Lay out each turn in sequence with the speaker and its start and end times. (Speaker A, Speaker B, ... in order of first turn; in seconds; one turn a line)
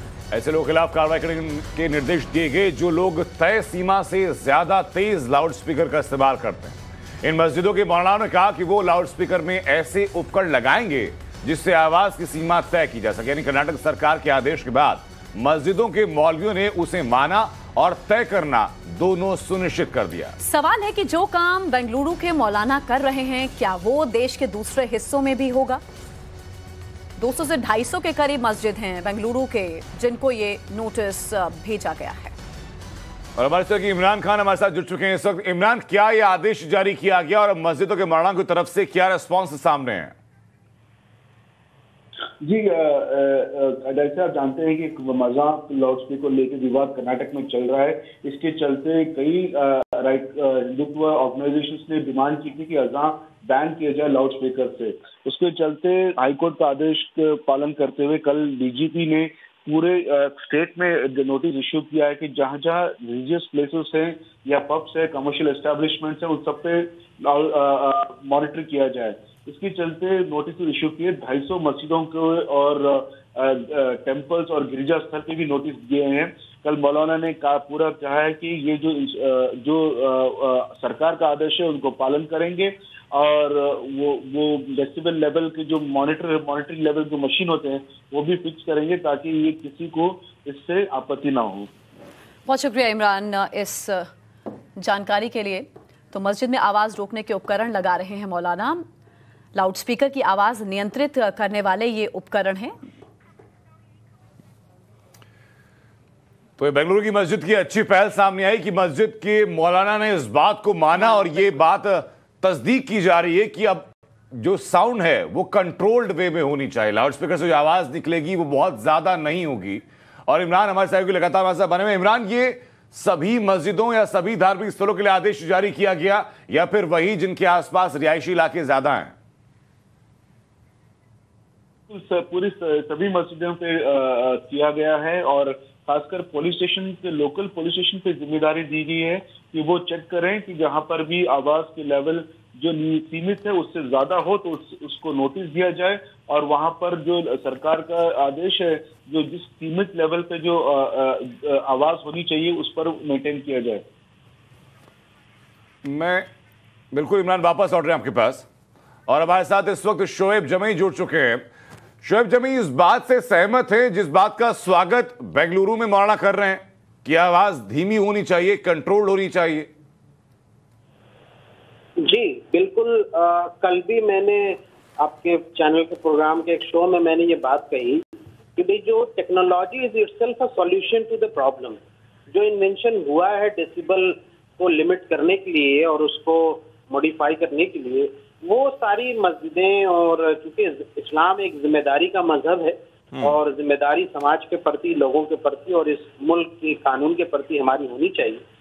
Speaker A: 0.3-20.3
Speaker B: 20.4-25.8
Speaker B: 27.2-32.3
Speaker A: 33.4-40.1
Speaker C: 42.4-91.7
Speaker B: 92.5-94.1
Speaker B: 94.8-98.8
Speaker B: 99.5-102.7
Speaker A: 106.6-129.1
Speaker C: 131.9-153.8
Speaker A: 155.8-156.2
Speaker A: 156.9-158.4
Speaker A: 159.1-161.4
Speaker A: 162.0-169.7
Speaker D: 172.0-178.0
Speaker D: 178.6-181.8
Speaker D: 182.3-198.4